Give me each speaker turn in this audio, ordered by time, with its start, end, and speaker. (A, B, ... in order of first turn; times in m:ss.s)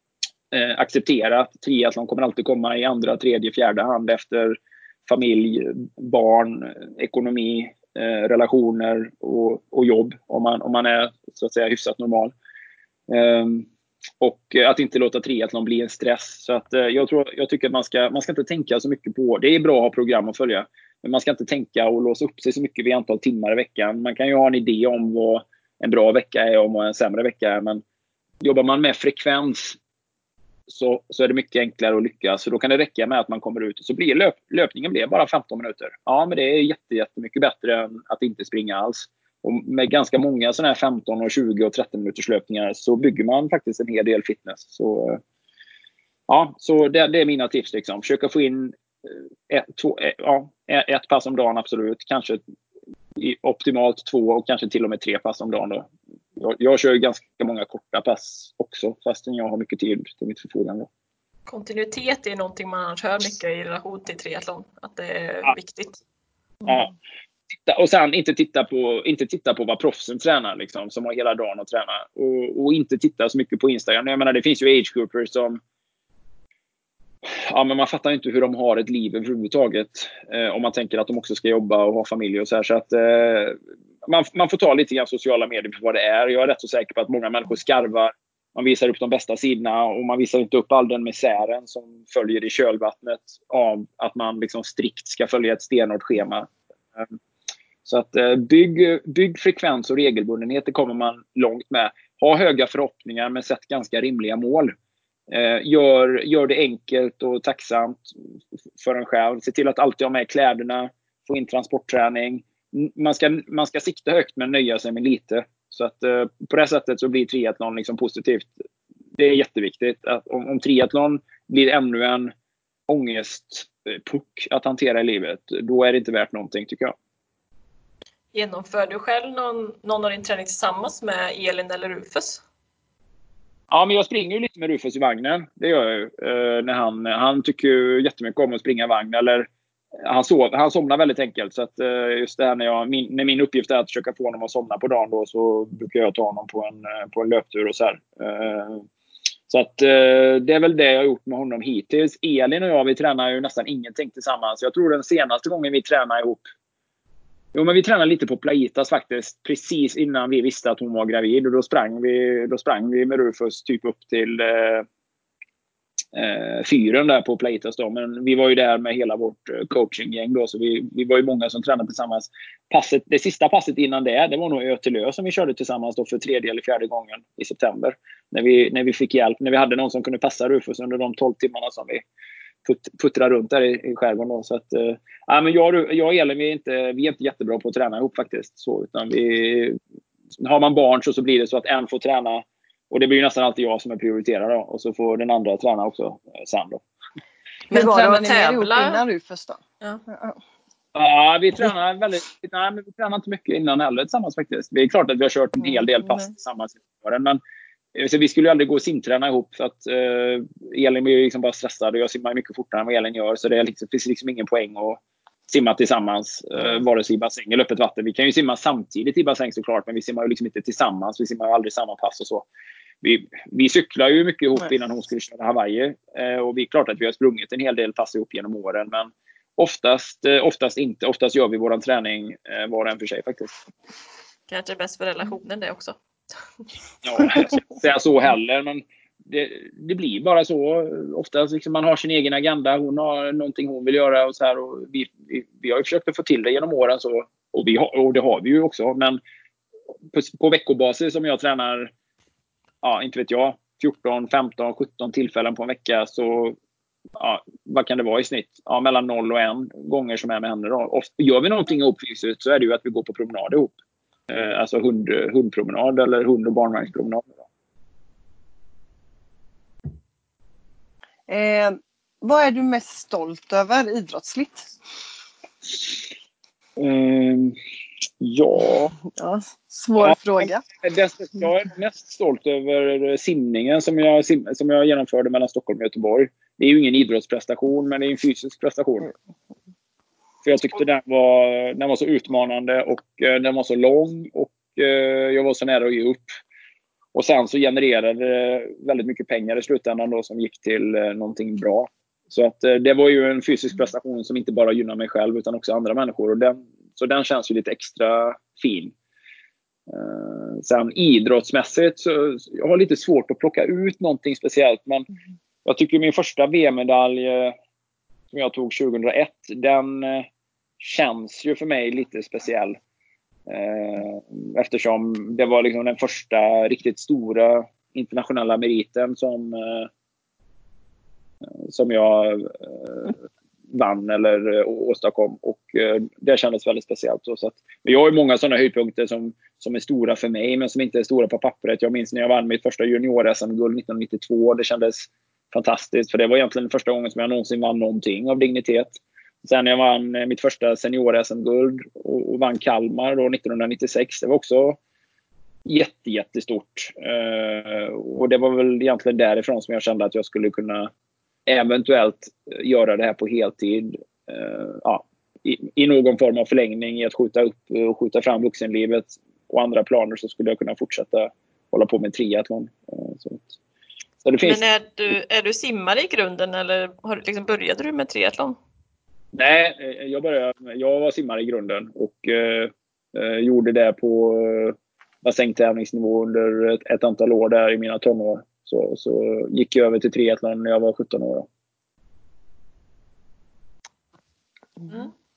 0:00.5-0:12.3 A
0:13.1-0:13.7 A
0:14.2-0:27.8 A
0:28.4-0:29.8 A
0:30.7-0:45.2 A
0:46.3-0:52.4 A
0:53.2-1:00.9 A
1:01.5-1:06.0 B
1:06.6-1:06.9 A
1:07.6-1:15.6 A
1:17.2-1:37.1 A
1:37.8-1:44.7 A
1:45.3-1:48.1 A
1:48.8-1:58.5 A
1:59.1-2:02.3 A
2:02.9-2:06.9 A
2:08.3-2:12.4 B
2:13.7-2:28.8 A
2:29.5-2:36.5 A
2:37.5-2:44.8 A
2:46.1-3:02.0 A
3:02.6-3:09.8 A
3:10.4-3:16.8 A
3:17.7-3:19.0 B
3:17.7-3:20.4 C
3:20.9-3:27.4 A
3:27.9-3:42.4 A
3:43.0-3:53.5 A
3:54.5-3:56.0 B
3:57.0-4:09.2 A
4:10.1-4:11.9 A
4:12.8-4:16.6 A
4:17.2-4:23.7 A
4:24.3-4:27.3 A
4:31.3-4:34.7 C
4:36.8-4:37.6 A
4:38.2-4:38.9 A
4:39.2-4:40.6 C
4:40.0-4:49.1 A
4:50.4-4:56.4 A
4:57.1-5:08.9 A
5:09.9-5:15.1 A
5:15.6-5:17.5 A
5:18.3-5:20.3 A
5:20.8-5:22.8 A
5:23.5-5:29.9 A
5:31.6-5:33.2 A
5:33.7-5:54.8 A
5:55.6-6:00.9 A
6:01.4-6:13.6 A
6:14.2-6:14.6 A
6:14.4-6:18.6 B
6:19.3-6:31.5 A